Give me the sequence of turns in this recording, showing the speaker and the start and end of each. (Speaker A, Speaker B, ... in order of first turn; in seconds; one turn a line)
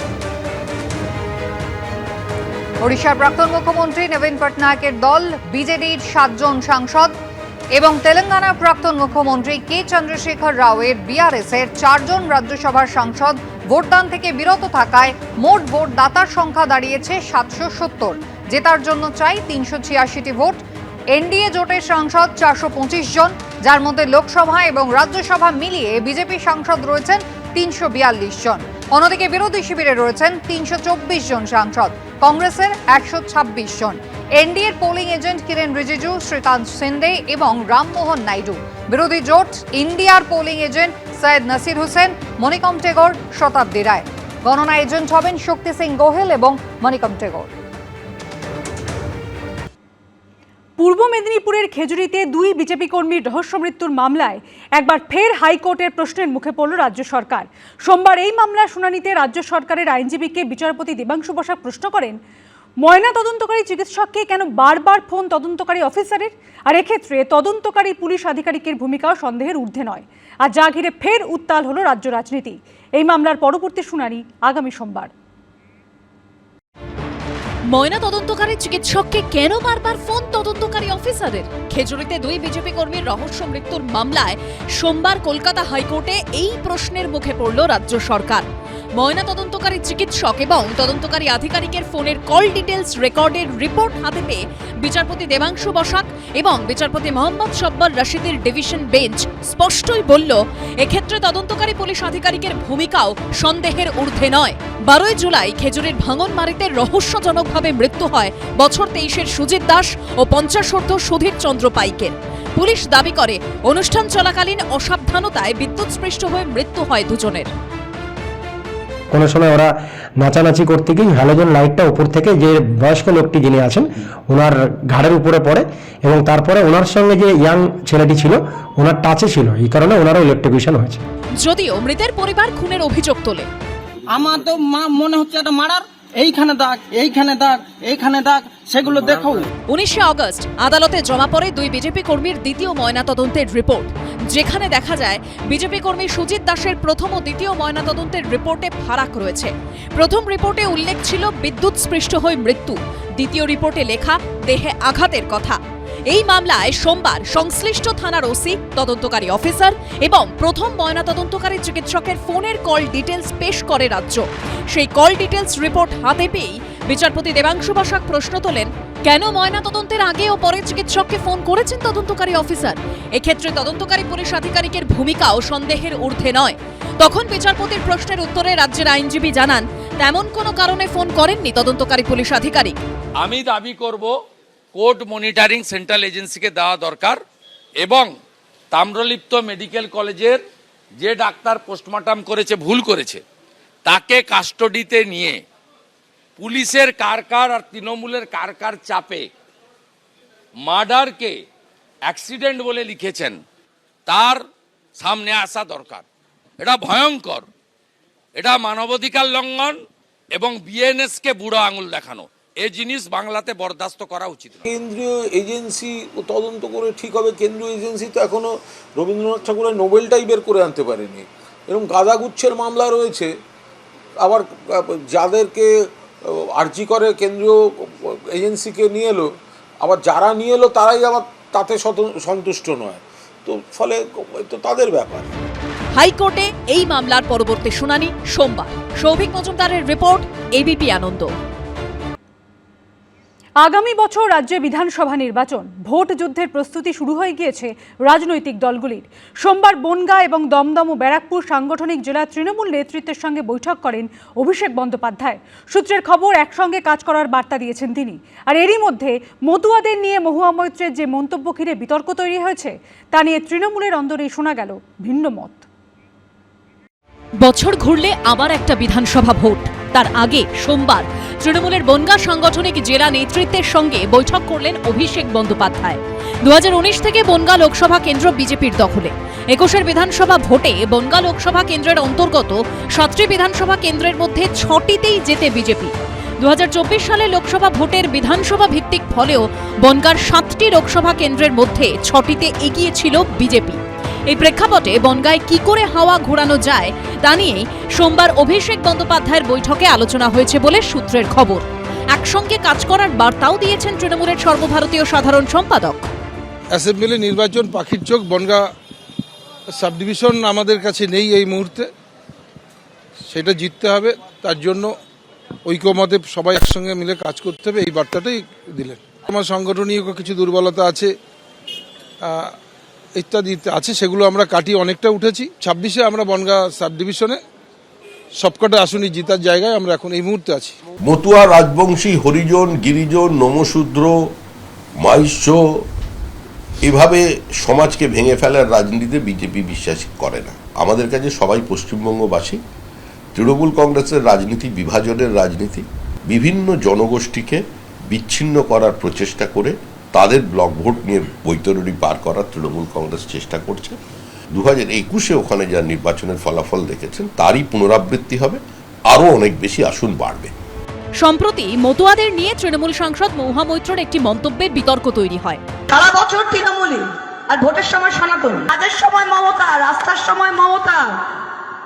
Speaker A: 2.8-7.1
Speaker A: 7.8-20.6
Speaker A: 21.1-47.5
Speaker B: 50.8-62.2
Speaker B: 62.8-75.1
Speaker C: 77.7-88.4
Speaker C: 89.0-117.5
Speaker D: 119.1-131.0
Speaker C: 131.4-133.5
Speaker E: 134.1-139.5
Speaker C: 139.7-182.8
Speaker F: 183.2-184.1
Speaker F: 184.7-187.2
Speaker F: 187.8-188.1
Speaker F: 188.7-190.4
Speaker F: 191.0-193.2
Speaker F: 193.8-195.4
Speaker F: 196.4-199.3
Speaker F: 200.6-201.4
Speaker F: 202.1-203.4
Speaker F: 204.1-204.4
Speaker F: 205.0-206.0
Speaker F: 206.6-207.5
Speaker F: 208.3-209.8
Speaker F: 210.3-214.6
Speaker G: 214.6-223.3
Speaker G: 224.2-229.3
Speaker G: 229.8-235.3
Speaker C: 235.9-241.3
Speaker B: 243.6-265.6
Speaker C: 267.4-306.1
Speaker H: 306.7-308.7
Speaker H: 309.7-311.9
Speaker H: 313.3-314.9
Speaker H: 315.6-321.1
Speaker H: 322.2-322.5
Speaker H: 323.2-327.4
Speaker H: 328.4-330.8
Speaker I: 331.0-334.1
Speaker I: 335.0-335.6
Speaker I: 336.8-342.6
Speaker I: 343.3-354.0
Speaker I: 354.5-360.5
Speaker C: 361.2-365.6
Speaker J: 365.9-371.0